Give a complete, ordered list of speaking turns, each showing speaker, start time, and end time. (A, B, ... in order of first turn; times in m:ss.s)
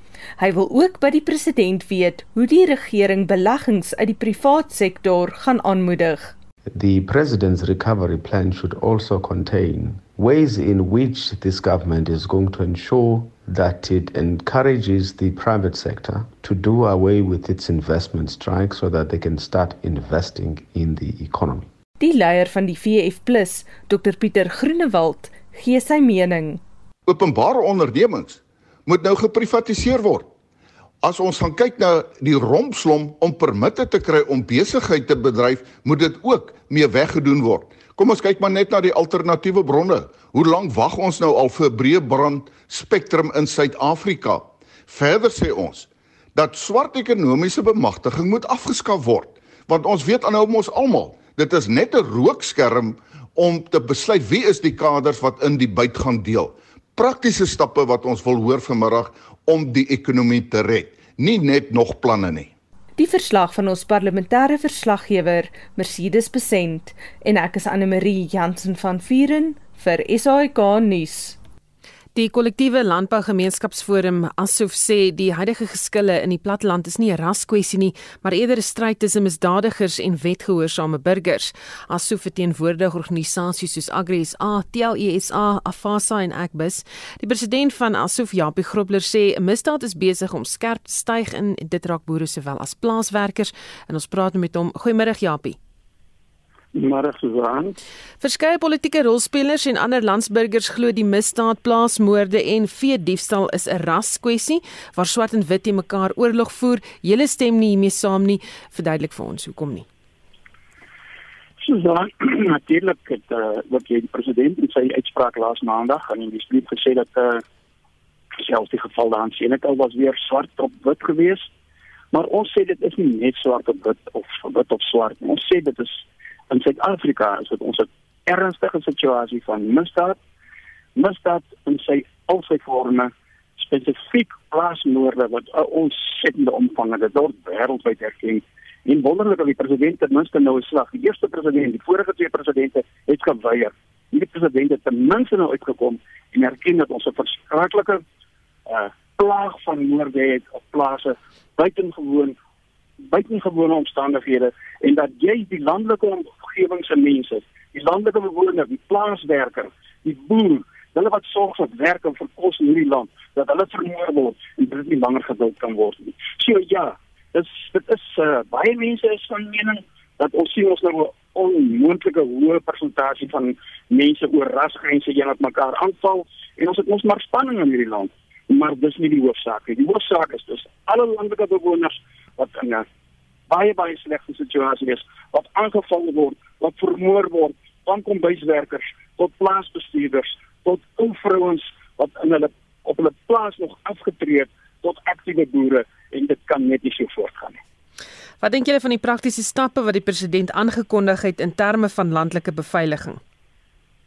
0:00.4-0:06.3 A
0:06.7-0:21.7 B
0:22.0-0:26.6 A
0:27.1-0:30.3 C
0:31.0-1:02.5 C
1:03.0-1:11.4 A
1:12.2-1:35.6 D
1:36.8-1:37.7 E
1:38.2-1:49.9 D
1:51.6-1:57.4 E
1:58.4-2:01.5 E
2:02.1-2:10.2 E
2:11.0-2:28.0 E
2:28.7-2:32.4 E
2:33.0-3:02.9 E
3:03.5-3:17.6 E
3:18.4-3:23.2 D